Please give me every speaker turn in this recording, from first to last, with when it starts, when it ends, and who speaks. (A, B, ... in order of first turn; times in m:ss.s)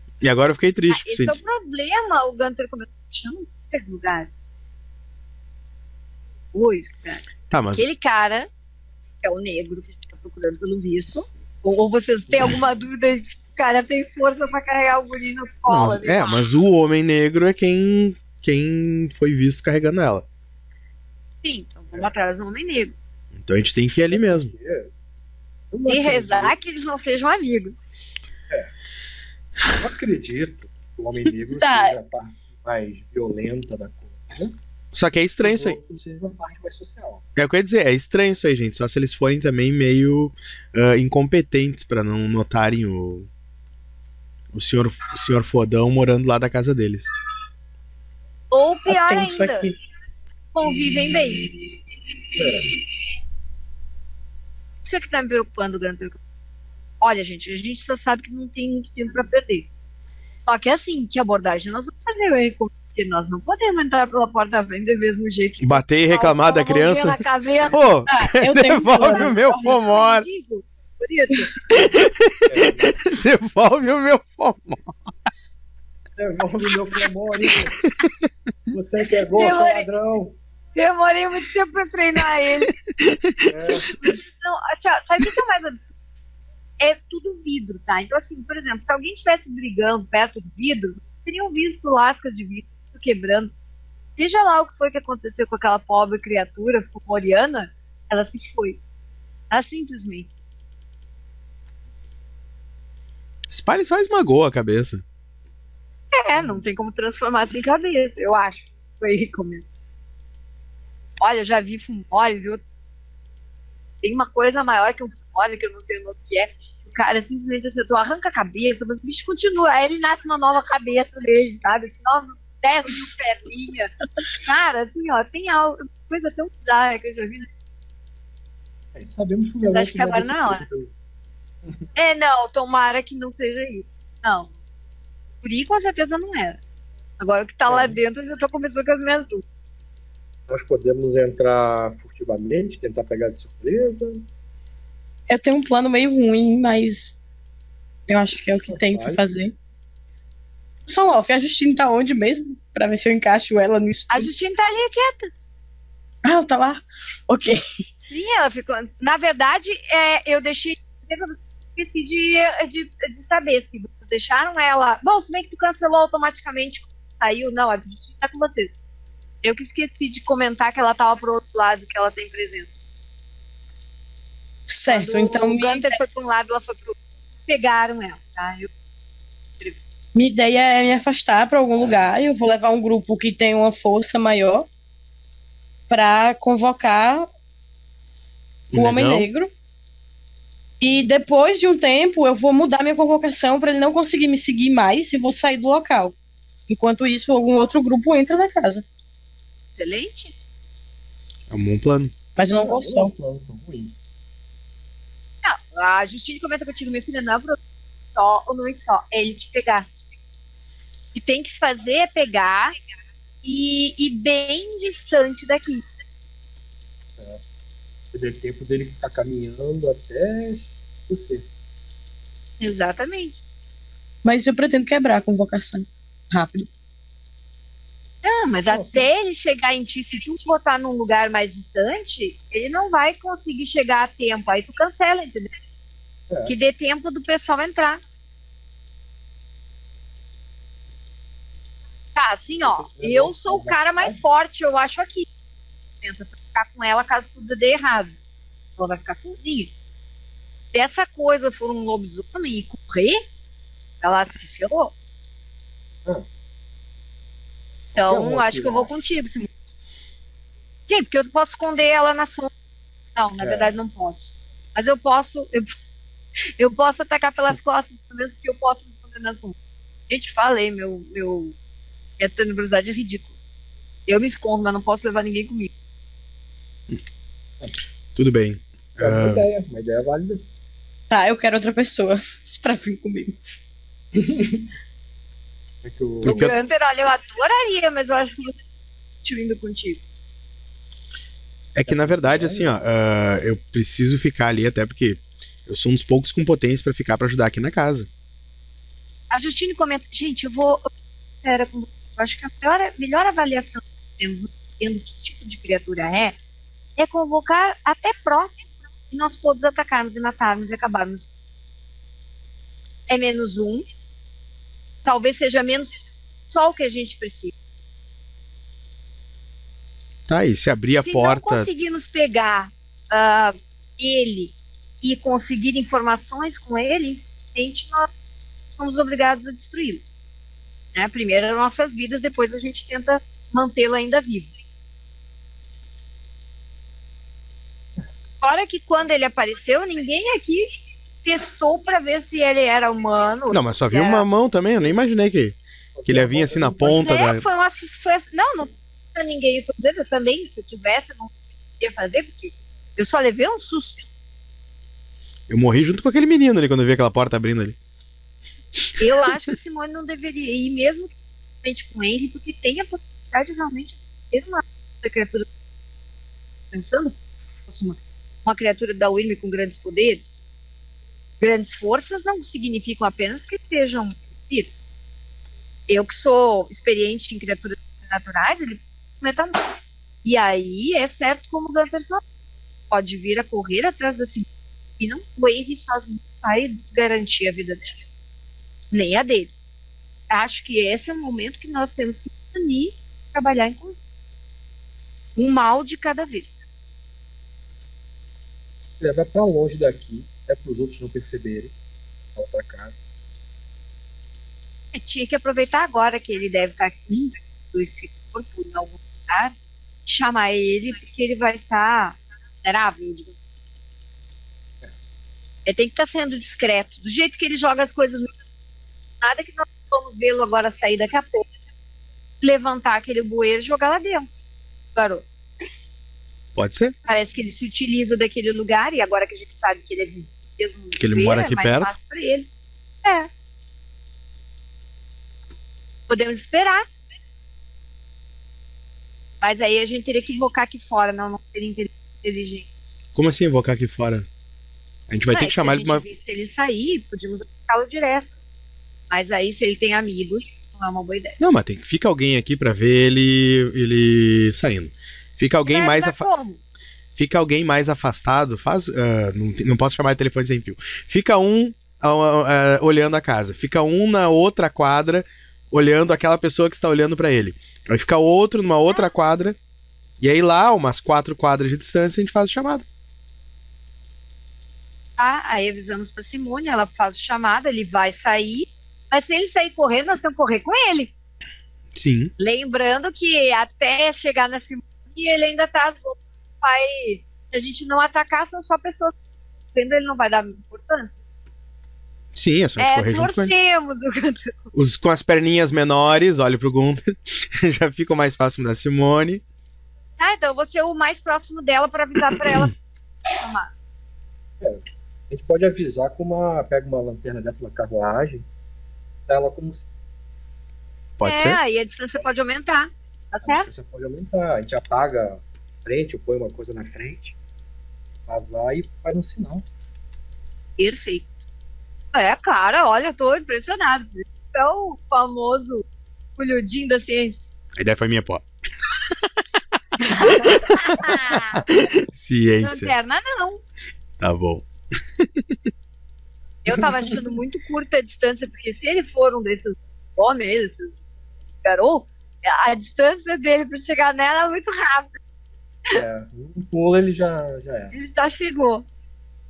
0:00.2-0:01.4 A
0:00.9-0:04.3 B
0:06.5-0:08.5 B
0:07.5-0:07.8 A
0:09.2-0:16.4 B
0:15.7-0:20.2 A
0:21.4-0:22.9 B
0:23.4-0:24.5 A
0:24.1-0:24.9 C
0:25.7-0:26.5 C
0:25.9-0:27.7 B
0:29.7-0:34.5 C
0:31.6-0:32.0 D
0:34.9-0:35.8 A
0:35.4-0:37.2 C
0:37.4-0:43.3 A
0:44.5-0:47.1 A
0:48.5-0:49.7 B
0:48.9-0:49.7 D
0:50.5-0:51.5 B
0:52.4-0:52.7 C
0:54.8-0:56.2 B
0:57.0-0:59.7 B
1:00.4-1:07.8 B
1:05.6-1:10.3 A
1:08.1-1:09.8 D
1:09.0-1:11.6 B
1:11.7-1:15.1 A
1:12.5-1:13.0 C
1:16.2-1:17.8 C
1:18.7-1:20.3 C
1:19.3-1:19.8 B
1:20.7-1:22.7 B
1:22.8-1:23.8 A
1:23.5-1:23.9 C
1:23.7-1:25.9 B
1:26.8-1:33.5 B
1:34.2-1:38.8 B
1:39.5-1:40.3 B
1:43.5-1:45.0 A
1:46.1-1:49.6 B
1:46.3-1:46.6 C
1:51.2-1:52.6 B
1:54.0-2:07.5 B
2:08.9-2:10.9 C
2:09.6-2:10.6 B
2:12.0-2:14.5 B
2:15.4-2:16.6 B
2:17.2-2:19.4 B
2:17.7-2:18.0 C
2:20.5-2:24.2 C
2:25.3-2:27.1 D
2:28.1-2:29.5 D
2:28.7-2:29.2 C
2:30.9-2:34.3 D
2:34.1-2:35.3 B
2:36.2-2:37.8 D
2:38.1-2:48.8 B
2:49.4-2:52.7 B
2:54.7-2:55.9 D
2:54.8-2:58.7 B
3:00.1-3:04.7 D
3:05.9-3:07.3 D
3:08.7-3:09.3 A
3:08.7-3:09.5 D
3:10.8-3:16.1 D
3:16.7-3:18.8 D
3:19.7-3:20.3 B
3:21.5-3:22.1 A
3:22.4-3:23.1 D
3:22.4-3:23.9 C
3:25.4-3:27.6 B
3:28.1-3:29.9 B
3:31.1-3:32.7 B
3:33.4-3:35.9 B
3:38.1-3:41.5 C
3:42.6-3:43.4 B
3:44.2-3:46.7 D
3:48.2-3:55.5 B
3:48.7-3:49.1 C
3:56.4-3:58.0 B
4:02.1-4:05.3 B
4:02.6-4:04.2 C
4:06.0-4:08.1 B
4:08.8-4:09.7 B
4:10.7-4:13.2 B
4:14.0-4:14.9 B
4:17.9-4:18.9 C
4:18.0-4:19.5 B
4:20.9-4:22.5 B
4:23.2-4:25.7 B
4:23.4-4:23.7 C
4:26.6-4:29.6 B
4:30.1-4:31.5 B
4:32.2-4:33.3 B
4:34.1-4:35.7 B
4:38.1-4:39.4 A
4:39.0-4:40.4 C
4:41.1-4:43.4 D
4:44.1-4:44.7 C
4:45.8-4:46.5 C
4:46.2-4:46.5 A
4:46.2-4:48.6 B
4:49.2-4:50.0 B
4:51.7-4:58.1 A
4:51.8-4:52.8 C
4:59.3-5:06.4 B
5:07.0-5:11.3 B
5:13.1-5:13.9 B
5:15.0-5:17.5 B
5:20.3-5:21.7 A
5:21.0-5:28.1 B
5:28.8-5:30.0 B
5:30.9-5:34.5 B
5:38.4-5:40.7 B
5:41.2-5:44.2 B
5:43.5-5:47.4 A
5:46.0-5:47.1 C
5:46.8-5:54.0 B
5:55.5-5:57.8 A
5:59.0-6:05.5 B
6:06.7-6:07.1 B
6:07.6-6:10.4 B
6:11.4-6:14.7 B
6:15.9-6:22.2 B
6:22.9-6:24.5 B
6:25.0-6:28.0 B
6:28.9-6:29.5 B
6:30.3-6:34.0 B
6:35.4-6:36.6 B
6:39.0-6:41.7 C
6:42.4-6:42.9 C
6:44.9-6:53.3 B
6:55.6-6:58.4 B
6:59.2-7:01.5 B
7:02.4-7:04.3 B
7:04.9-7:05.2 B
7:06.5-7:06.9 A
7:07.0-7:12.5 B
7:11.0-7:11.9 A
7:13.0-7:13.3 B
7:16.1-7:17.0 B
7:19.4-7:22.6 B
7:23.1-7:24.3 A
7:25.1-7:26.0 A
7:25.3-7:28.3 B
7:29.1-7:31.4 B
7:31.4-7:36.2 A
7:35.7-7:36.6 B
7:37.2-7:49.6 A
7:50.2-7:52.8 A
7:55.2-8:01.1 B
8:01.9-8:02.3 A
8:02.4-8:09.1 B
8:09.7-8:11.2 B
8:12.3-8:13.5 A
8:12.8-8:14.7 B
8:14.7-8:19.4 A
8:20.2-8:22.7 B
8:23.4-8:23.7 B
8:24.6-8:28.4 C
8:29.3-8:29.8 C
8:31.2-8:31.6 A
8:31.2-8:33.7 B
8:33.4-8:37.3 C
8:38.3-8:39.6 C
8:40.8-8:41.3 B
8:42.1-8:45.8 B
8:46.4-8:47.5 B
8:47.8-8:48.4 A
8:50.0-8:51.7 B
8:50.3-8:52.9 A
8:52.6-8:53.6 B
8:54.2-8:54.6 A
8:55.2-8:55.5 A
8:56.6-9:01.0 B
9:01.6-9:05.2 B
9:05.9-9:07.9 C
9:07.9-9:08.8 B